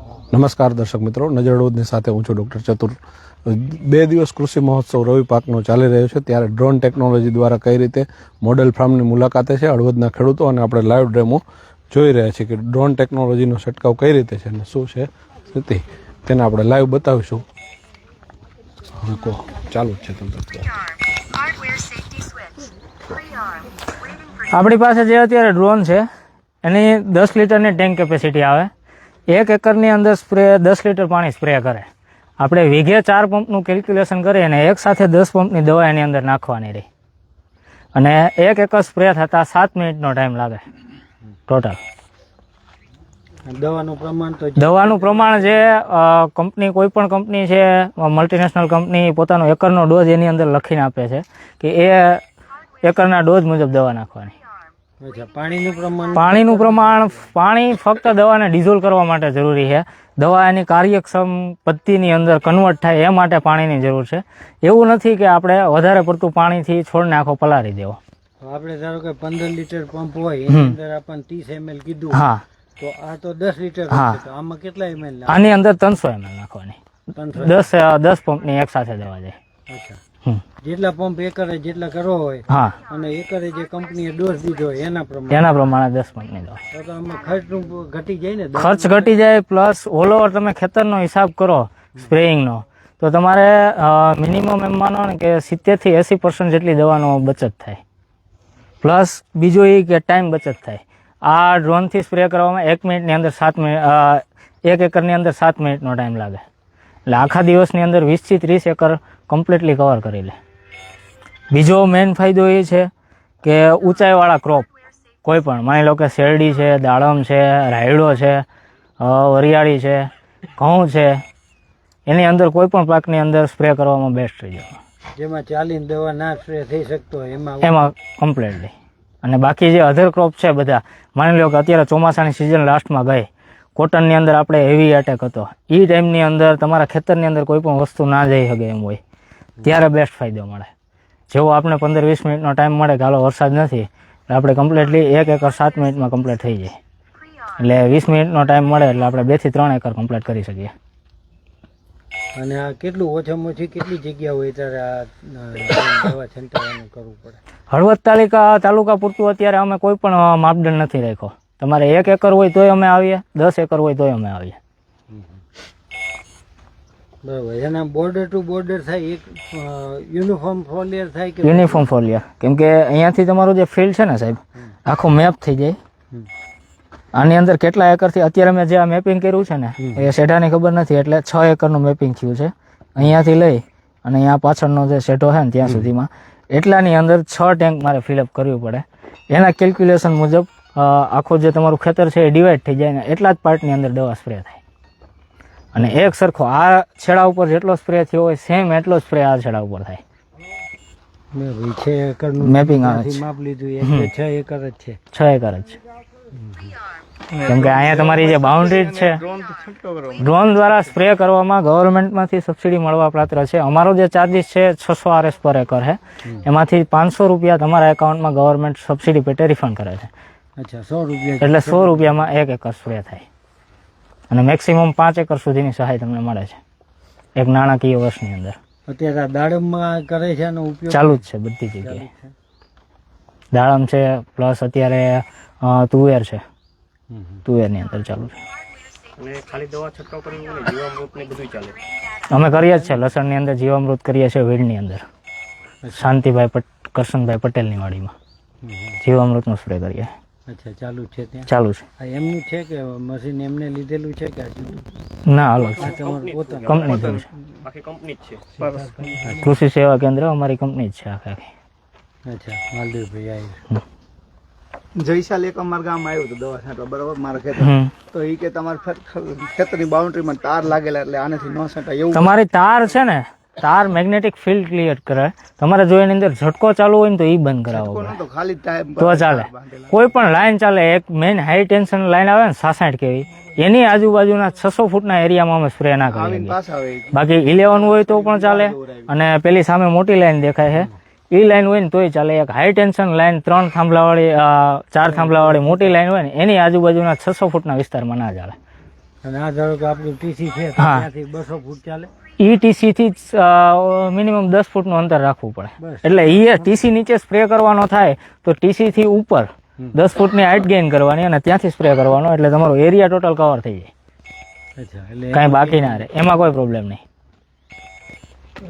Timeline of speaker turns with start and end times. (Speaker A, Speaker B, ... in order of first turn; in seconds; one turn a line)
Speaker A: 0.3-17.4
Speaker A: 19.0-20.7
Speaker B: 24.4-26.1
Speaker B: 26.6-28.7
Speaker B: 29.3-31.9
Speaker B: 32.4-36.9
Speaker B: 37.9-40.6
Speaker B: 41.5-41.8
Speaker C: 43.5-45.6
Speaker B: 44.6-52.2
Speaker B: 52.8-54.3
Speaker C: 55.0-57.0
Speaker B: 56.1-68.0
Speaker C: 68.4-72.2
Speaker B: 70.5-70.7
Speaker B: 72.1-72.4
Speaker C: 72.8-75.4
Speaker B: 73.9-74.2
Speaker B: 75.3-76.8
Speaker C: 77.1-77.7
Speaker B: 77.4-79.3
Speaker C: 79.7-80.0
Speaker C: 80.6-85.5
Speaker B: 82.5-82.8
Speaker B: 85.3-86.6
Speaker C: 86.7-89.2
Speaker B: 88.5-97.8
Speaker B: 98.8-106.4
Speaker B: 107.1-110.3
Speaker B: 111.5-112.9
Speaker B: 113.4-114.7
Speaker B: 115.2-118.4
Speaker B: 119.0-121.2
Speaker B: 122.1-124.8
Speaker C: 125.2-127.9
Speaker B: 127.6-139.0
Speaker B: 139.6-140.7
Speaker B: 141.3-146.7
Speaker B: 147.6-150.7
Speaker C: 152.4-157.4
Speaker B: 157.7-164.6
Speaker C: 165.1-165.4
Speaker C: 167.2-171.9
Speaker B: 171.4-175.8
Speaker B: 177.1-194.6
Speaker A: 179.8-180.0
Speaker B: 195.7-200.0
Speaker C: 195.8-196.0
Speaker C: 201.3-205.0
Speaker B: 202.4-203.2
Speaker B: 203.8-204.1
Speaker B: 205.1-205.8
Speaker B: 207.4-209.2
Speaker D: 207.4-210.2
Speaker B: 210.2-220.1
Speaker C: 220.6-222.2
Speaker B: 221.4-223.2
Speaker B: 224.3-226.6
Speaker B: 227.4-228.6
Speaker C: 228.9-231.2
Speaker B: 230.9-232.0
Speaker C: 231.8-232.3
Speaker B: 233.5-236.4
Speaker C: 237.1-237.4
Speaker B: 237.4-238.4
Speaker E: 239.2-241.8
Speaker B: 242.3-245.0
Speaker C: 242.7-243.0
Speaker C: 245.8-246.1
Speaker B: 245.9-248.1
Speaker C: 248.6-249.0
Speaker B: 249.0-250.1
Speaker C: 250.5-251.5
Speaker B: 251.5-251.8
Speaker C: 252.0-254.8
Speaker B: 255.2-255.9
Speaker E: 255.6-258.5
Speaker C: 255.8-256.9
Speaker B: 256.7-257.3
Speaker D: 256.9-257.2
Speaker D: 258.6-259.1
Speaker C: 258.6-259.6
Speaker B: 259.4-261.5
Speaker C: 262.3-263.6
Speaker D: 265.0-272.3
Speaker B: 267.6-267.9
Speaker B: 272.1-278.2
Speaker D: 277.7-280.0
Speaker B: 279.0-286.6
Speaker D: 286.1-289.1
Speaker B: 287.1-298.6
Speaker C: 295.1-295.9
Speaker C: 299.2-302.1
Speaker B: 300.8-301.1
Speaker B: 302.4-313.9
Speaker C: 305.8-306.7
Speaker C: 314.8-316.1
Speaker B: 315.3-317.0